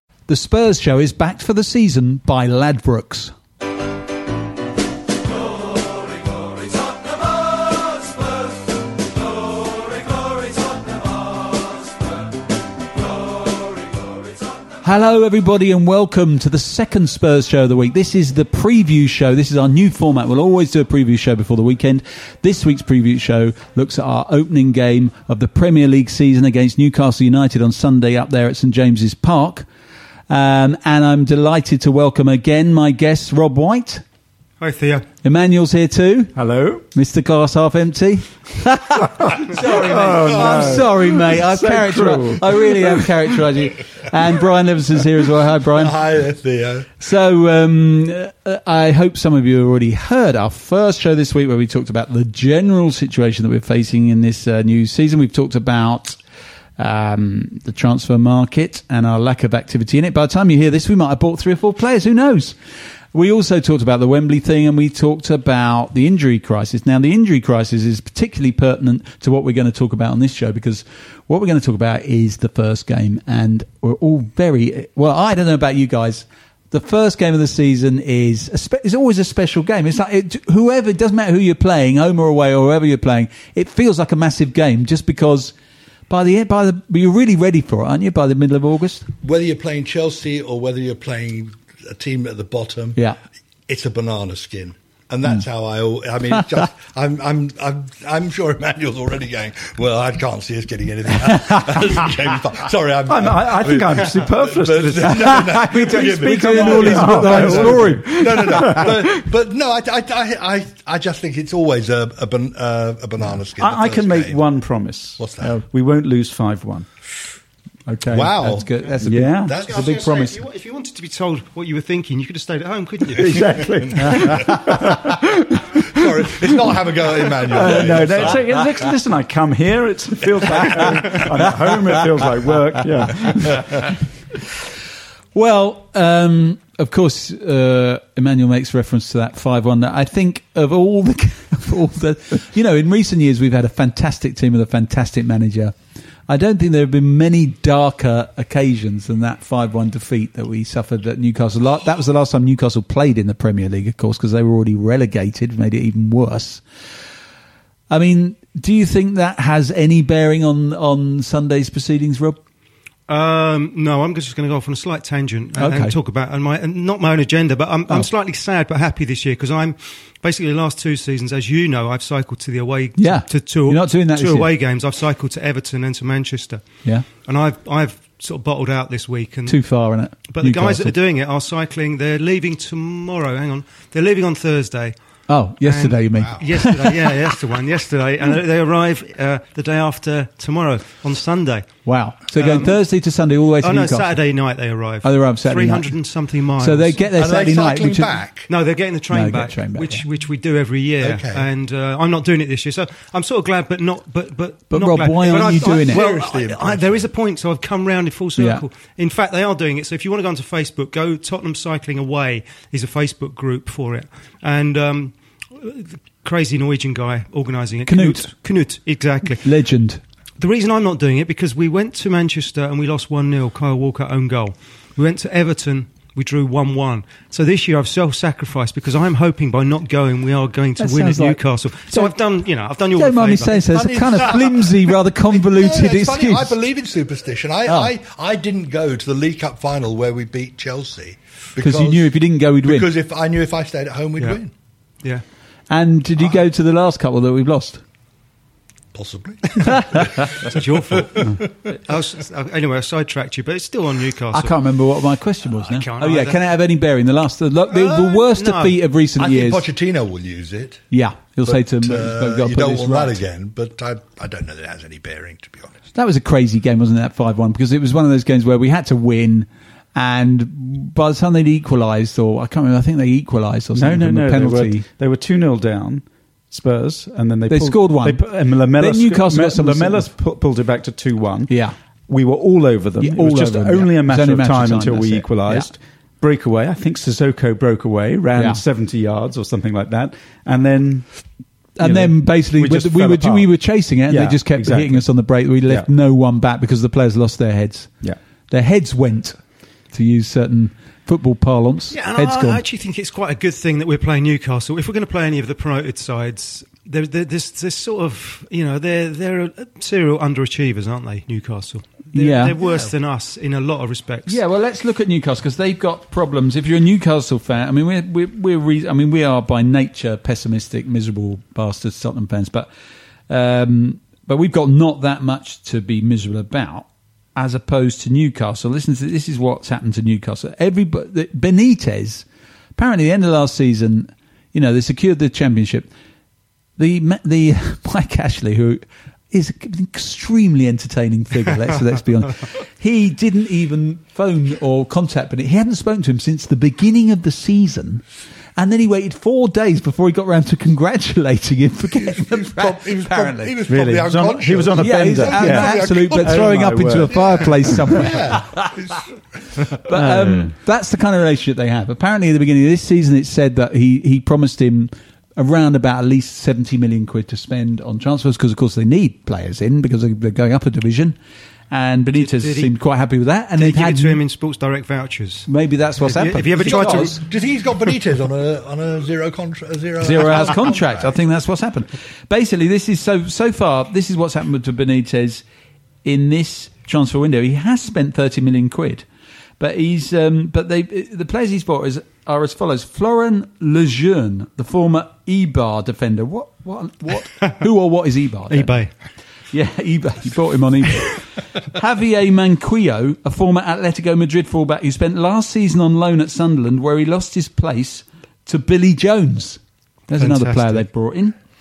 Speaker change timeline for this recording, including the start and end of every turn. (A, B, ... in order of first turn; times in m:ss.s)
0:00.3-0:03.3 A
0:14.8-0:29.7 A
0:30.3-0:34.0 A
0:34.6-0:35.0 B
0:35.2-0:36.4 A
0:36.4-0:36.8 C
0:36.9-0:46.0 A
0:39.2-0:43.1 C
0:39.5-0:40.9 D
0:45.7-0:46.9 D
0:47.0-0:56.2 A
0:56.8-1:02.5 A
1:03.1-1:25.5 A
1:26.1-1:29.1 A
1:29.2-1:33.0 D
1:33.7-1:54.4 D
1:43.1-1:49.2 C
1:45.2-1:48.8 A
1:53.6-1:56.9 C
1:55.2-1:55.5 D
1:57.9-2:00.4 A
1:58.1-1:58.8 D
1:59.0-1:59.6 C
1:59.4-2:00.1 D
1:59.5-2:03.7 B
2:03.2-2:06.8 C
2:04.0-2:04.6 D
2:05.7-2:08.6 D
2:07.4-2:13.9 C
2:15.3-2:25.7 A
2:26.3-2:36.6 A
2:37.9-2:42.4 A
2:43.1-2:59.6 B
2:45.6-2:45.9 A
2:53.0-2:54.5 A
2:59.5-3:01.0 A
3:00.3-3:05.0 B
3:05.3-3:07.1 A
3:05.6-3:11.7 B
3:11.8-3:14.2 A
3:12.3-3:12.8 B
3:13.6-3:17.0 B
3:15.0-3:15.9 A
3:16.6-3:18.2 A
3:17.2-3:18.5 D
3:18.5-3:39.5 B
3:19.1-3:20.0 A
3:21.0-3:21.5 D
3:24.7-3:26.0 A
3:25.3-3:27.0 D
3:28.4-3:28.6 A
3:37.9-3:38.2 A
3:39.4-3:40.0 A
3:40.4-3:54.3 B
3:50.8-3:51.4 A
3:52.9-3:56.6 A
3:53.7-4:04.5 D
3:57.6-3:57.9 A
4:01.6-4:02.9 A
4:05.7-4:07.8 A
4:08.9-4:11.5 D
4:09.6-4:10.0 A
4:10.3-4:14.5 B
4:14.3-4:19.7 A
4:15.5-4:16.4 B
4:17.7-4:18.8 B
4:19.2-4:20.8 D
4:20.9-4:23.2 A
4:21.4-4:25.8 D
4:25.9-4:34.8 A
4:33.7-4:41.6 C
4:37.5-4:40.1 A
4:41.5-4:41.7 A
4:42.1-4:51.1 C
4:43.0-4:45.7 A
4:48.3-4:48.6 A
4:51.8-4:58.0 A
4:51.8-4:53.5 C
4:54.1-4:55.0 C
4:58.5-4:59.4 A
4:59.9-5:02.6 A
5:01.9-5:14.4 B
5:12.1-5:12.5 A
5:12.6-5:12.9 D
5:14.2-5:22.7 A
5:23.3-5:32.2 A
5:32.8-5:35.9 A
5:36.8-5:48.0 A
5:48.6-5:53.6 A
5:51.9-5:59.1 D
5:53.7-5:58.1 C
5:54.8-5:58.8 A
5:59.8-6:11.2 A
5:59.8-6:00.5 C
6:11.7-6:14.2 A
6:12.1-6:12.7 B
6:13.6-6:15.5 B
6:15.5-6:17.2 A
6:16.0-6:17.2 B
6:16.5-6:21.1 D
6:20.0-6:25.4 A
6:26.0-6:29.0 A
6:29.6-6:38.8 A
6:38.5-6:38.9 B
6:39.5-6:51.4 A
6:50.2-6:50.8 B